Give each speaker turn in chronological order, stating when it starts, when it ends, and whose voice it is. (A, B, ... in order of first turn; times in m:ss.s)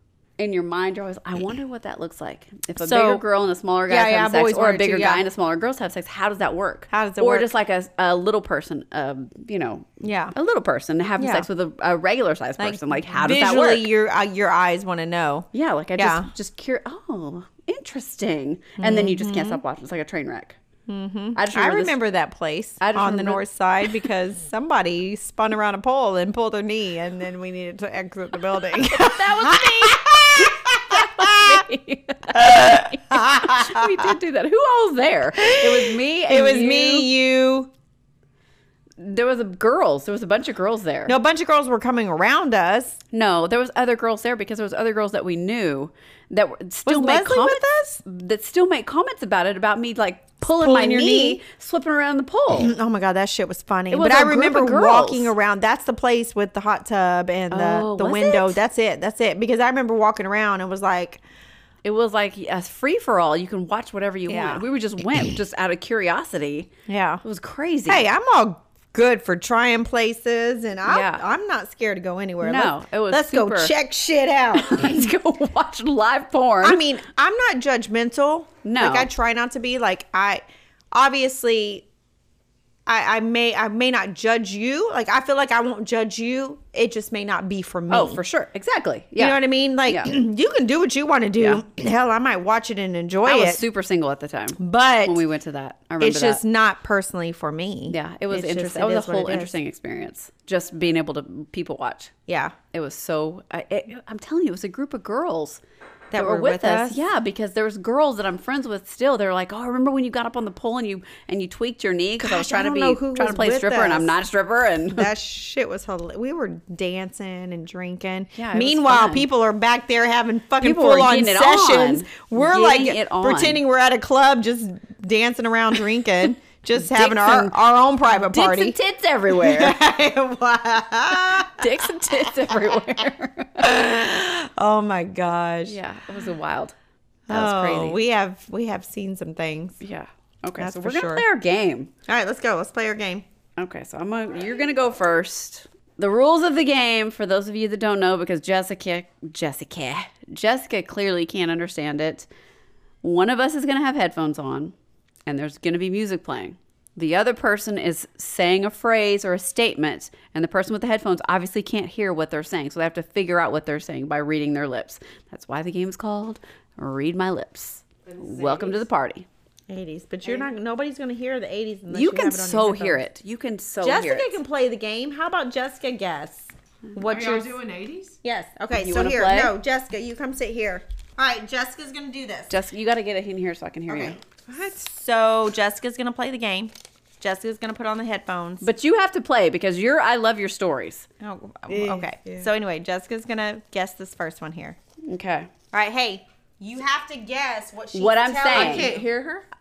0:00.4-0:13.9 A
0:02.8-0:03.2 B
0:03.9-0:05.2 B
0:06.9-0:07.5 B
0:10.0-0:10.3 B
0:11.2-0:11.5 B
0:12.6-0:16.3 B
0:15.5-0:20.6 A
0:18.8-0:19.6 B
0:20.9-0:31.6 B
0:21.3-0:22.0 A
0:22.8-0:23.4 A
0:28.8-0:37.1 A
0:32.3-0:34.1 B
0:35.4-0:37.7 B
0:39.0-0:41.1 A
0:41.1-0:43.0 B
0:43.1-0:52.7 A
0:46.8-0:48.0 B
0:50.6-0:51.4 B
0:52.5-1:01.2 B
0:53.9-0:55.3 A
0:57.5-0:58.6 A
1:01.8-1:06.7 A
1:04.3-1:04.6 B
1:06.9-1:07.2 B
1:07.2-1:08.1 A
1:07.9-1:15.1 B
1:10.8-1:11.2 A
1:12.4-1:13.7 A
1:14.5-1:16.8 A
1:16.6-1:21.9 B
1:18.6-1:19.1 A
1:22.8-1:28.2 B
1:27.9-1:30.2 A
1:29.2-1:33.6 B
1:33.2-1:36.4 A
1:34.6-1:35.2 B
1:36.0-1:39.5 B
1:37.9-1:42.1 A
1:42.3-1:42.5 B
1:42.7-1:45.6 A
1:46.1-1:47.0 B
1:46.2-1:55.1 A
1:52.2-1:54.2 B
1:54.9-2:08.8 B
1:58.3-1:59.3 A
2:00.6-2:03.6 A
2:06.8-2:07.6 A
2:08.1-2:09.8 A
2:09.3-2:13.0 B
2:11.4-2:13.7 A
2:13.6-2:15.8 B
2:15.7-2:16.7 A
2:17.3-2:18.0 A
2:17.3-2:19.8 B
2:19.8-2:21.9 A
2:20.6-2:21.2 B
2:22.1-2:23.2 B
2:23.6-2:32.3 A
2:33.0-2:34.7 A
2:35.2-2:49.3 A
2:48.0-2:48.8 C
2:49.7-2:53.0 B
2:51.9-2:54.4 A
2:53.8-2:57.5 B
2:57.0-2:58.2 C
2:58.2-3:02.5 B
2:58.7-2:59.5 A
3:02.5-3:04.2 A
3:03.9-3:08.6 B
3:08.6-3:11.1 A
3:11.2-3:14.8 B
3:11.7-3:12.4 C
3:15.1-3:15.5 A
3:15.7-3:19.0 B
3:17.9-3:18.9 A
3:18.5-3:19.4 C